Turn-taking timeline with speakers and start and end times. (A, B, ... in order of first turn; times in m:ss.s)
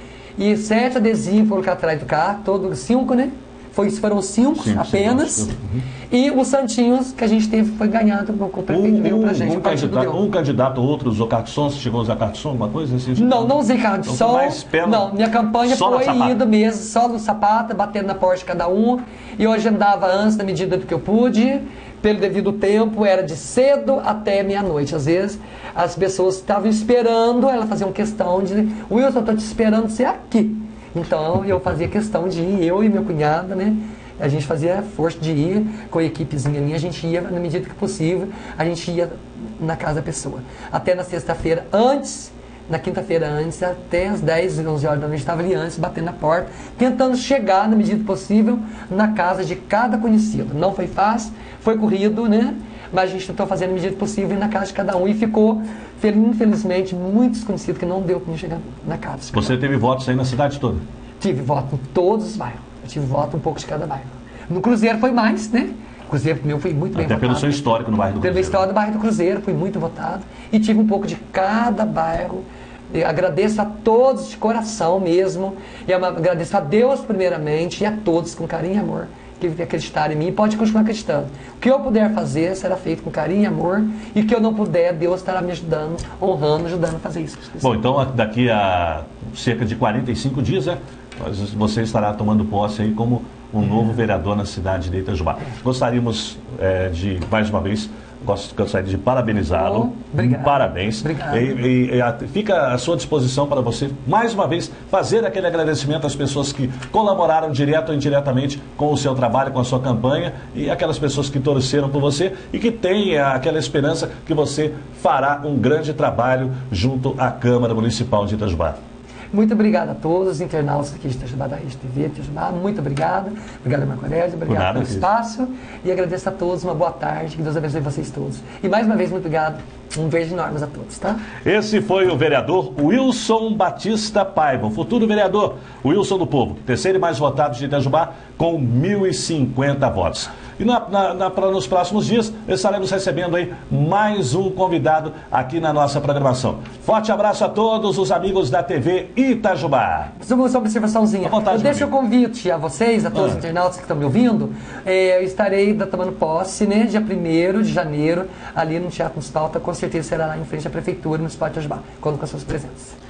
0:00.4-0:05.5 A
0:04.6-0:05.8 B
0:06.1-0:10.2 A
0:08.7-0:15.1 B
0:13.2-0:59.6 A
0:15.6-0:16.4 B
0:59.3-1:00.8 B
1:01.2-1:27.8 A
1:06.9-1:08.7 B
1:27.6-1:58.8 B
1:39.5-1:41.6 A
1:59.3-2:11.3 A
2:04.5-2:05.1 B
2:11.4-2:30.1 B
2:30.2-2:43.0 A
2:31.2-2:31.9 B
2:33.1-2:33.4 B